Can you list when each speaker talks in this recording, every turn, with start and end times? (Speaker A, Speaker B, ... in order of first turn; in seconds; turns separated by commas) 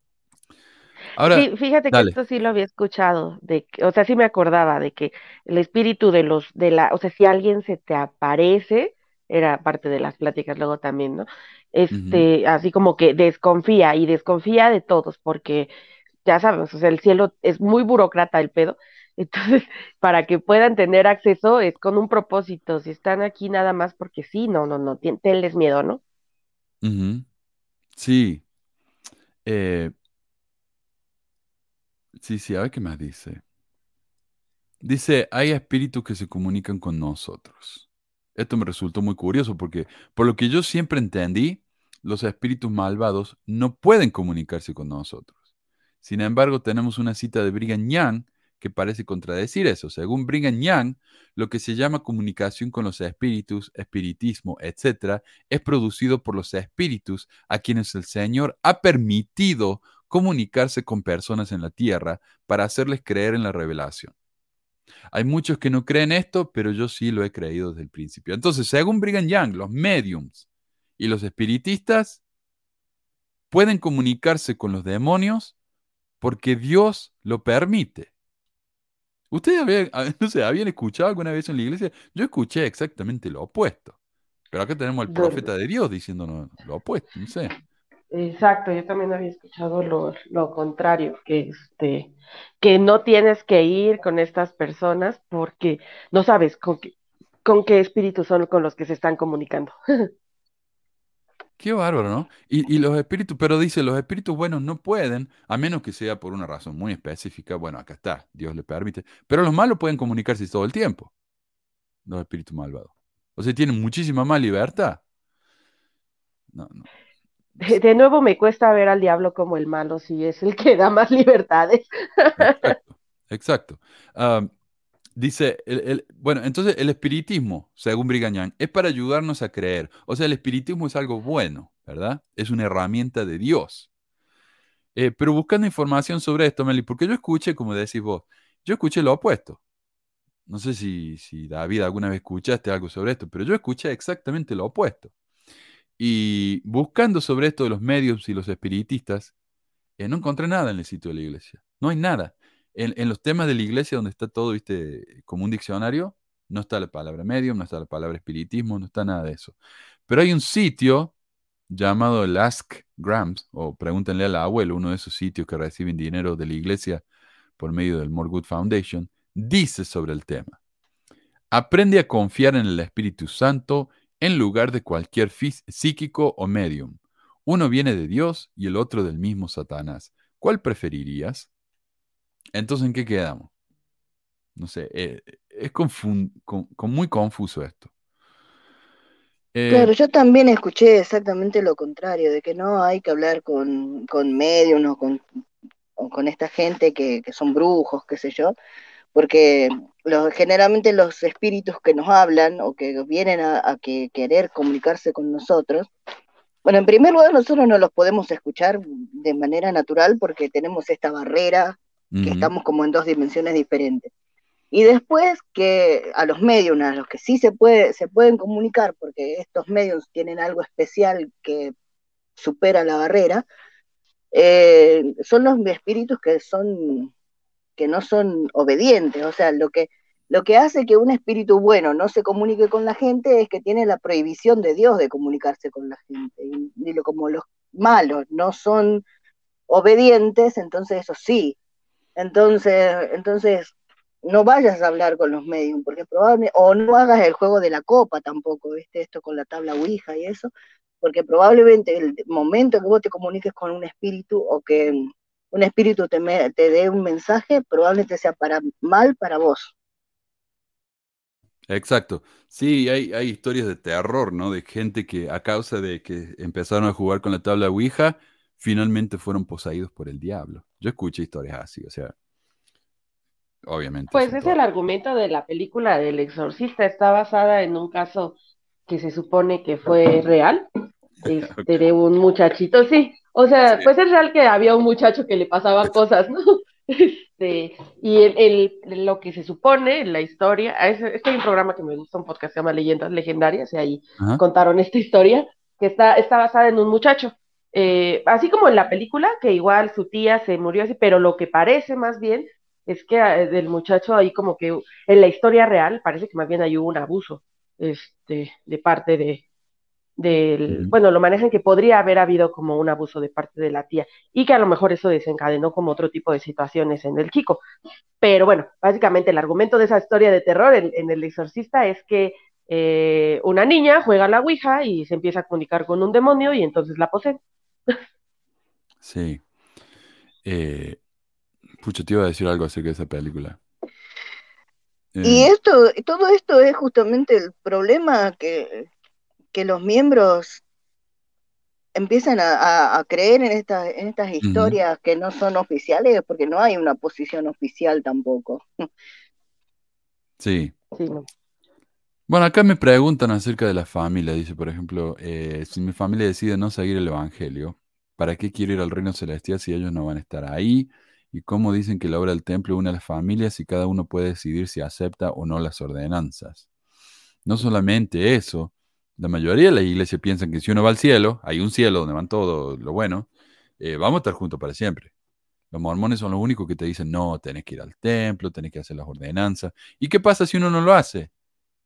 Speaker A: 1.1-2.1, Speaker B: 1.3-15.7, Speaker A: 11.9-12.2, Speaker B: 16.2-26.0, Speaker A: 26.8-27.2, Speaker A: 27.9-28.4, Speaker A: 29.4-29.9, Speaker A: 32.2-33.4, Speaker A: 34.8-45.4, Speaker A: 46.0-64.1, Speaker A: 65.1-70.4, Speaker A: 71.0-72.2, Speaker A: 73.5-75.5, Speaker A: 76.2-78.1, Speaker A: 79.3-83.9, Speaker A: 84.5-87.5, Speaker B: 85.1-85.5, Speaker B: 88.1-96.9, Speaker B: 97.4-100.1, Speaker A: 101.6-111.1, Speaker A: 112.0-115.0, Speaker A: 116.5-116.9, Speaker B: 117.6-122.7, Speaker A: 122.4-124.5, Speaker A: 125.2-133.9, Speaker A: 134.9-139.6, Speaker A: 140.5-145.1, Speaker A: 146.0-149.3, Speaker A: 150.0-159.6, Speaker A: 160.1-161.1, Speaker A: 161.7-167.0, Speaker A: 167.6-170.6, Speaker A: 171.5-181.5, Speaker A: 182.5-183.5, Speaker A: 184.6-187.9, Speaker A: 189.5-189.9, Speaker C: 189.7-195.2, Speaker C: 196.0-198.6, Speaker C: 199.1-205.9, Speaker C: 206.6-214.1, Speaker A: 212.1-212.5, Speaker C: 214.7-221.7, Speaker C: 222.4-223.4, Speaker C: 224.3-227.1, Speaker C: 227.8-239.0, Speaker C: 239.7-241.6, Speaker C: 242.2-259.7, Speaker A: 261.7-272.1, Speaker A: 273.7-274.6, Speaker B: 274.1-278.3, Speaker B: 278.9-280.6, Speaker A: 281.2-281.7, Speaker B: 281.2-309.4, Speaker B: 310.2-317.6, Speaker B: 318.2-327.4, Speaker A: 329.0-329.4, Speaker A: 330.4-331.0, Speaker A: 331.8-333.6, Speaker A: 335.1-335.5, Speaker C: 335.2-338.9, Speaker C: 339.5-340.6, Speaker C: 341.9-348.7, Speaker A: 344.4-344.8, Speaker A: 350.4-350.7, Speaker B: 350.9-351.2, Speaker A: 352.3-366.6, Speaker A: 367.4-375.1, Speaker A: 375.7-381.3